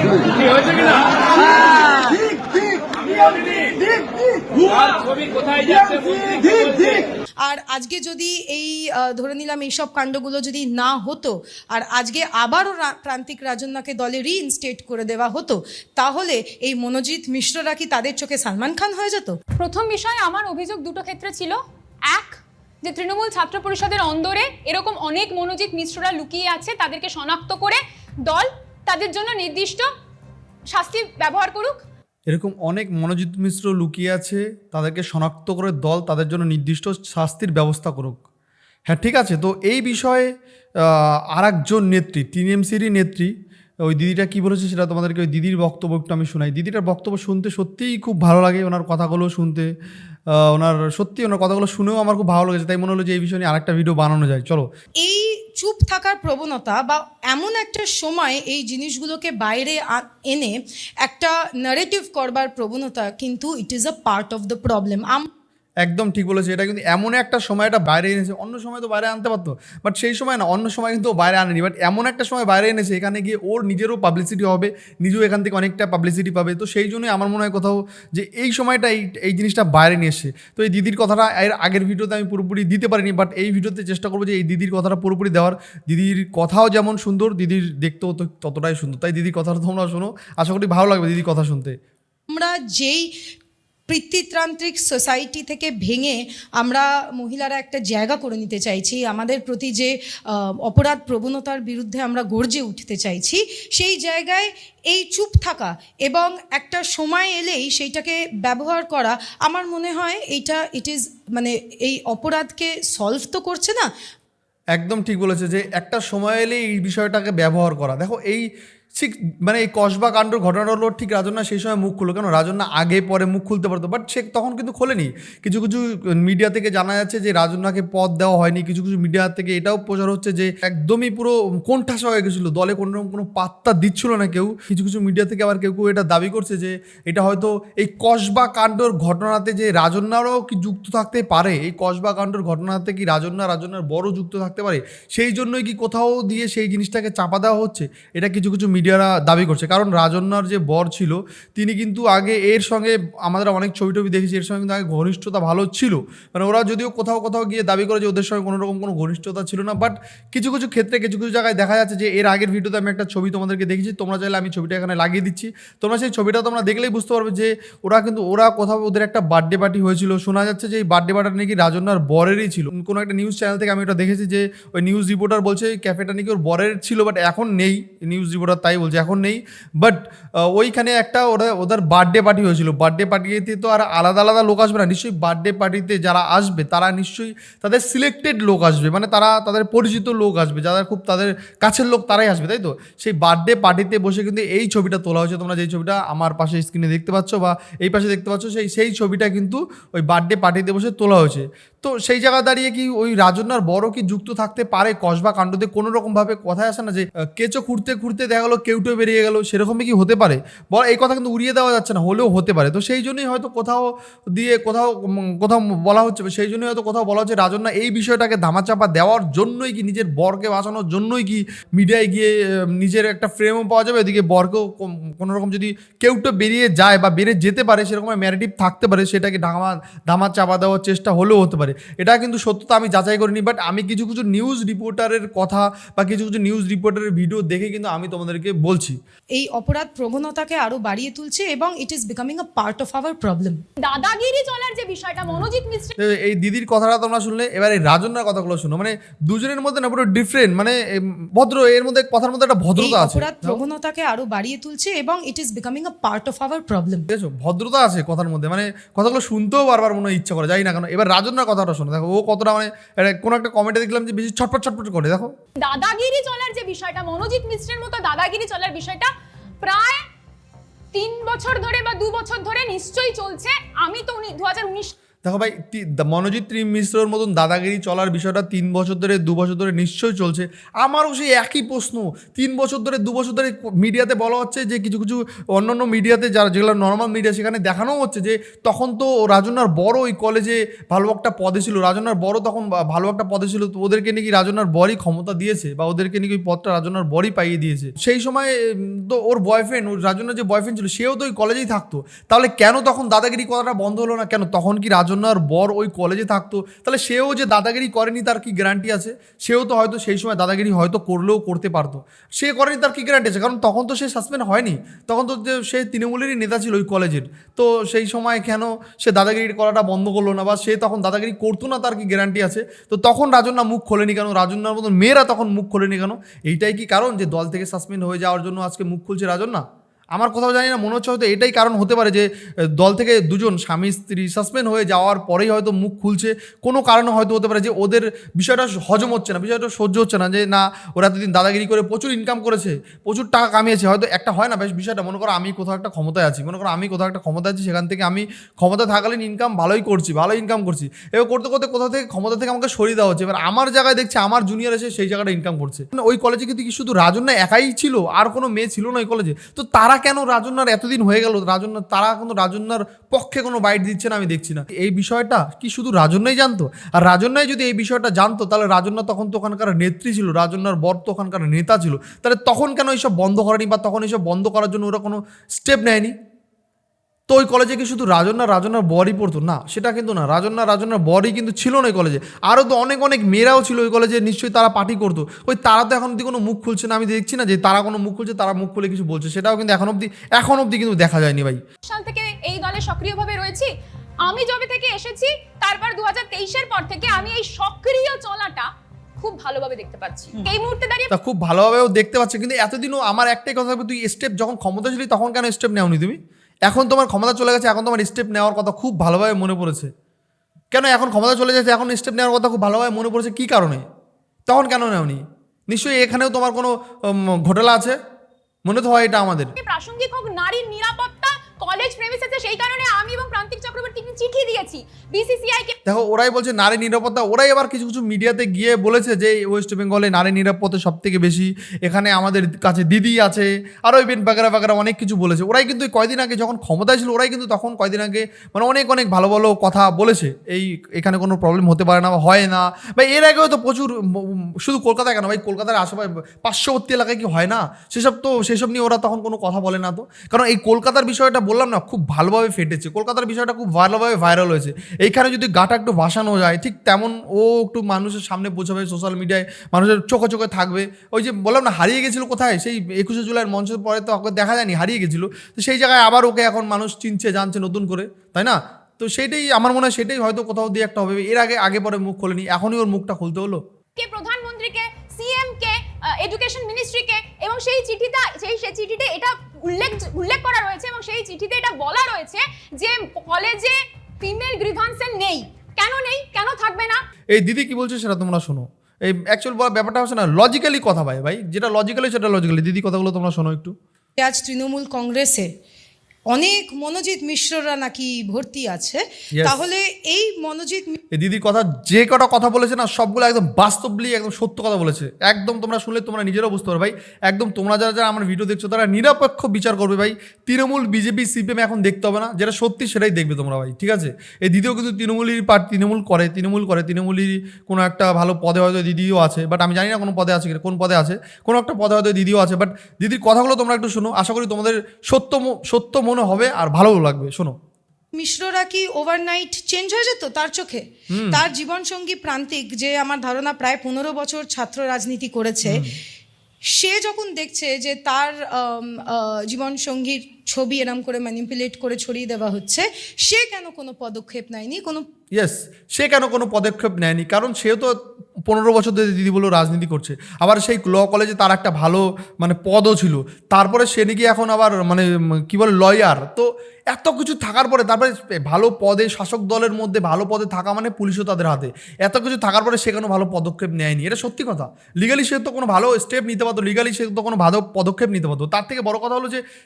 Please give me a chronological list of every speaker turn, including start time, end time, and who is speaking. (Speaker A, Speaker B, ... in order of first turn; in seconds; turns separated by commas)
Speaker A: 6.4-6.9, Speaker A: 7.4-19.4, Speaker B: 19.6-21.6, Speaker B: 22.1-29.9, Speaker B: 30.7-31.8, Speaker C: 32.3-38.2, Speaker C: 38.9-43.3, Speaker C: 43.8-49.7, Speaker C: 50.3-54.6, Speaker A: 55.0-65.3, Speaker C: 65.8-91.8, Speaker A: 92.3-93.1, Speaker A: 93.9-113.8, Speaker C: 114.7-238.9, Speaker A: 239.3-243.6, Speaker B: 243.8-245.9, Speaker C: 246.0-253.6, Speaker A: 252.8-257.1, Speaker C: 257.1-265.3, Speaker B: 265.6-269.1, Speaker B: 269.6-270.0, Speaker B: 270.9-274.9, Speaker C: 275.2-329.6, Speaker C: 330.1-376.1, Speaker C: 377.3-391.6, Speaker B: 391.8-393.7, Speaker B: 394.2-398.7, Speaker B: 399.2-401.1, Speaker C: 401.1-409.9, Speaker C: 410.7-413.8, Speaker C: 414.5-417.9, Speaker C: 418.6-419.5, Speaker B: 419.6-425.7, Speaker C: 425.9-473.6, Speaker B: 474.0-486.9, Speaker C: 487.3-493.7, Speaker A: 494.2-495.5, Speaker A: 496.3-501.0, Speaker C: 501.1-527.5, Speaker A: 528.1-535.8, Speaker C: 531.1-531.4, Speaker C: 535.6-535.9, Speaker A: 536.7-545.0, Speaker C: 545.3-547.9, Speaker C: 548.4-569.4